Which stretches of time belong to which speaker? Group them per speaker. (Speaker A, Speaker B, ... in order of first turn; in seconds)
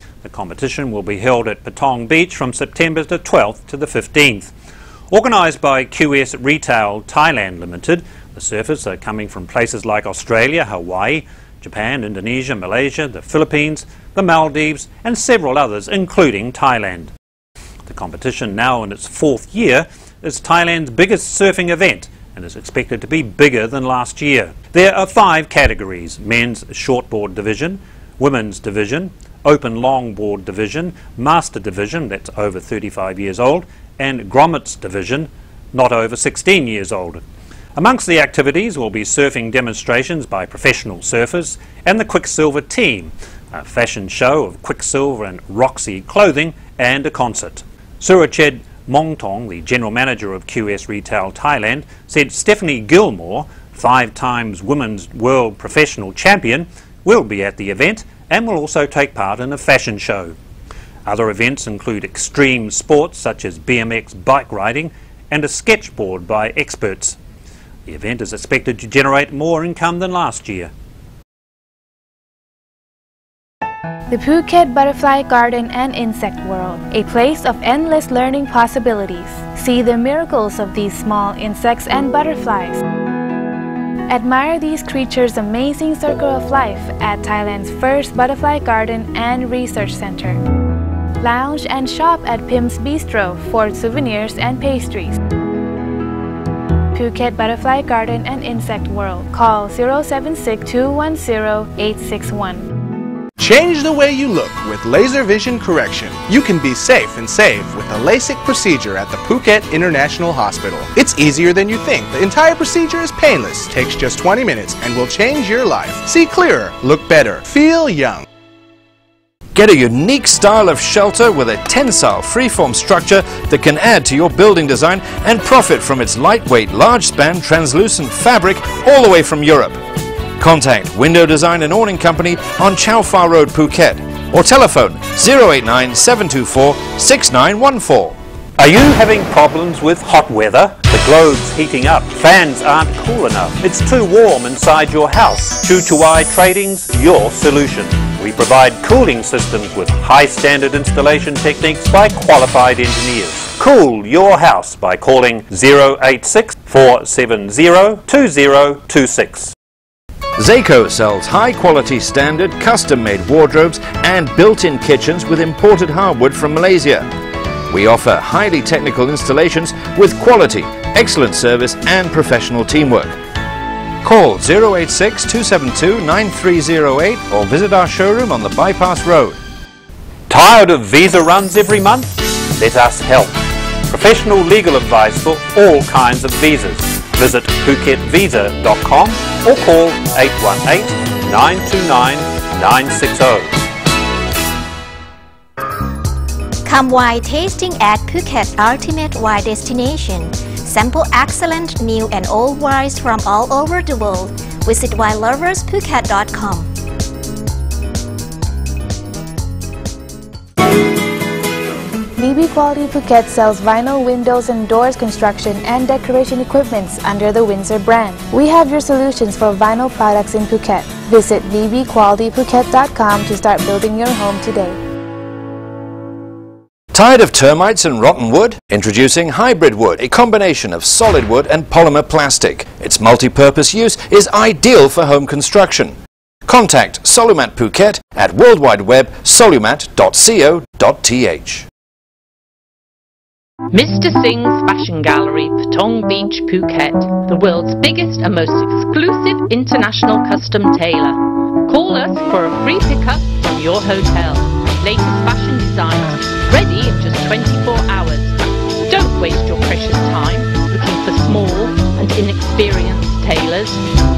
Speaker A: 0.2-4.5, 5.1-17.1, 17.9-37.2, 37.7-60.3, 61.0-67.2, 67.8-70.7, 138.6-159.5, 180.3-193.7
Speaker B: 74.1-82.8, 84.1-90.4, 91.2-95.2, 96.9-102.6, 212.2-224.8
Speaker C: 103.4-118.2
Speaker D: 119.5-129.8, 130.4-138.1, 160.4-167.1, 167.7-173.2, 174.0-179.4, 226.9-235.9, 236.4-241.7
Speaker E: 196.6-206.7
Speaker F: 243.7-263.8